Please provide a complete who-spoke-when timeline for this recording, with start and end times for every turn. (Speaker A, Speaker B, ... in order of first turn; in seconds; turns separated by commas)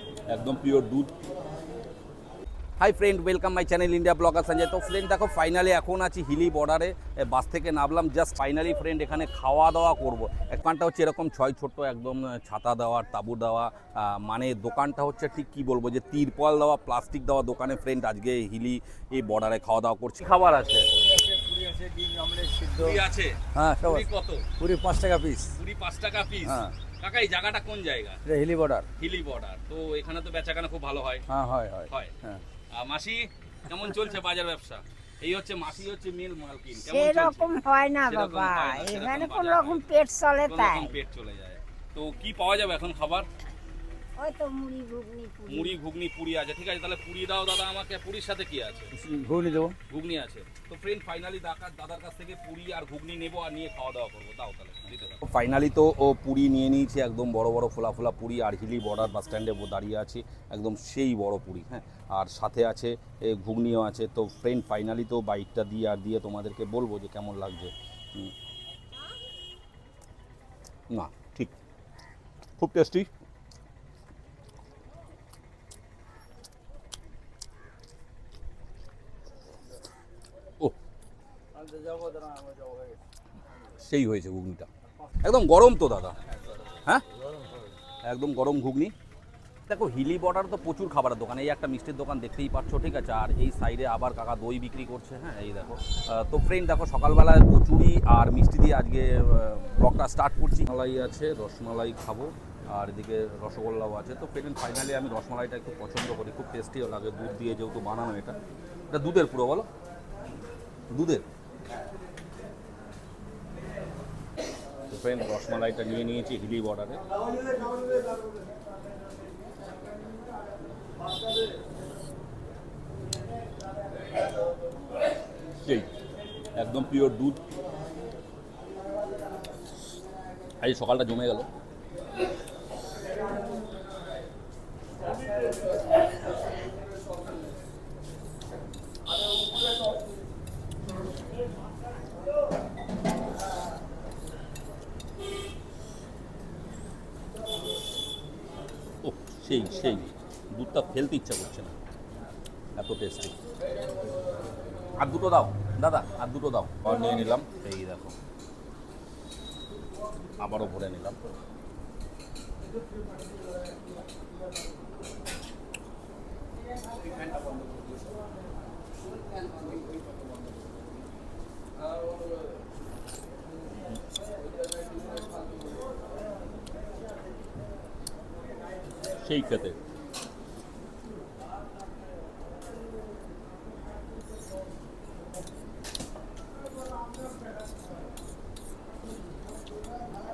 Speaker A: 0.3-1.1, Speaker A: 2.8-20.9, Speaker B: 21.0-23.0, Speaker A: 22.8-24.5, Speaker B: 23.7-24.1, Speaker B: 24.6-25.5, Speaker A: 25.5-28.2, Speaker B: 28.2-28.9, Speaker A: 28.9-31.3, Speaker B: 31.3-32.4, Speaker A: 31.9-32.2, Speaker A: 32.7-43.3, Speaker C: 36.9-40.9, Speaker C: 44.2-45.8, Speaker A: 45.5-48.9, Speaker B: 49.0-49.8, Speaker A: 49.9-68.3, Speaker A: 70.9-71.5, Speaker A: 72.6-73.1, Speaker B: 81.5-83.0, Speaker A: 83.8-84.7, Speaker A: 85.2-86.2, Speaker A: 88.0-88.9, Speaker A: 89.7-108.4, Speaker A: 108.9-109.7, Speaker A: 110.9-111.2, Speaker A: 114.9-117.0, Speaker A: 126.6-127.4, Speaker A: 130.6-131.5, Speaker A: 149.0-151.8, Speaker A: 152.8-153.3, Speaker A: 155.0-158.2, Speaker A: 160.4-161.2, Speaker A: 179.2-179.8